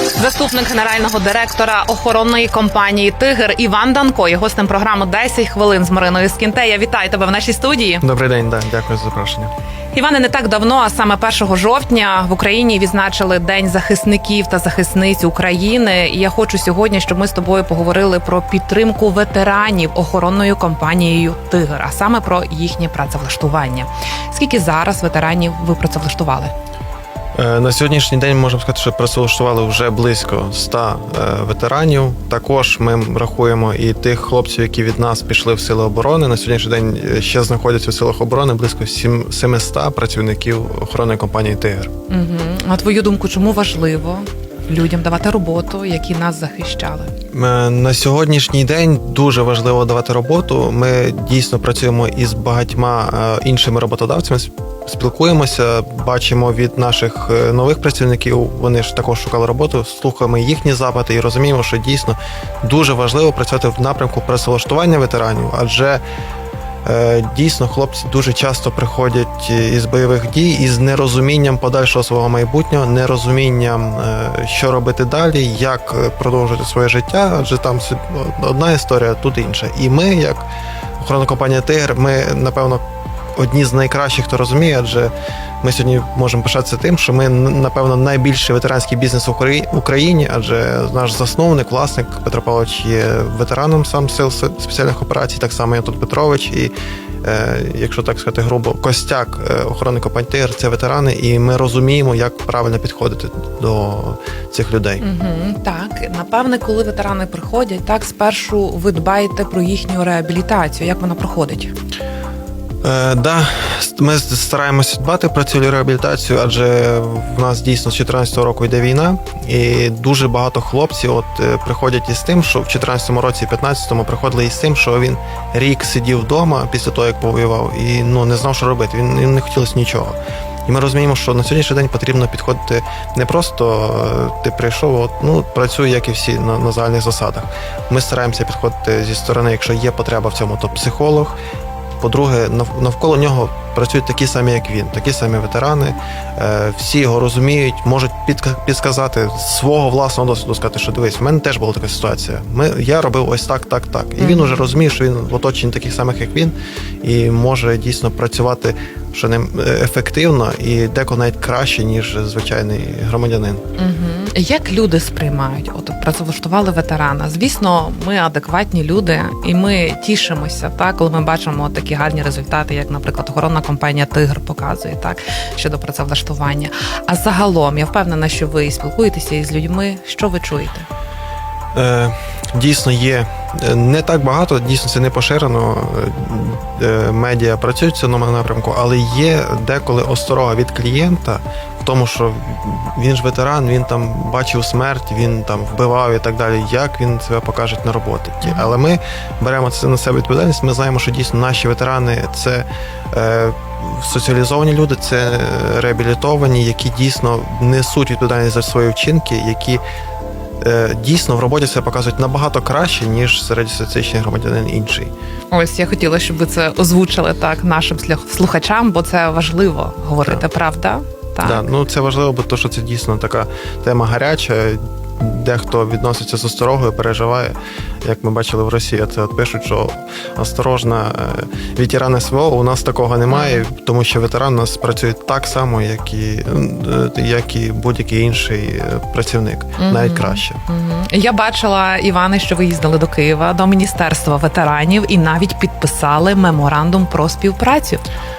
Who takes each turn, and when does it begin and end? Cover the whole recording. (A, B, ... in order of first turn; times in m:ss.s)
0:00.2-0:08.0 A
0:08.0-0:09.5 B
0:09.9-0:26.5 A
0:27.4-0:41.9 B
0:42.1-0:47.1 A
0:47.3-1:06.0 B
1:06.8-1:20.5 B
1:21.0-1:22.8 B
1:23.3-1:45.0 B
1:45.0-1:51.7 A
1:52.8-2:21.4 B
2:22.0-2:43.6 B
2:34.2-2:34.8 A
2:43.8-3:00.9 A
3:01.7-3:29.8 B
3:18.4-3:18.7 A
3:30.6-3:35.1 B
3:35.5-3:41.7 A
3:41.4-4:00.6 B
3:53.3-3:53.6 A
3:59.8-4:08.0 A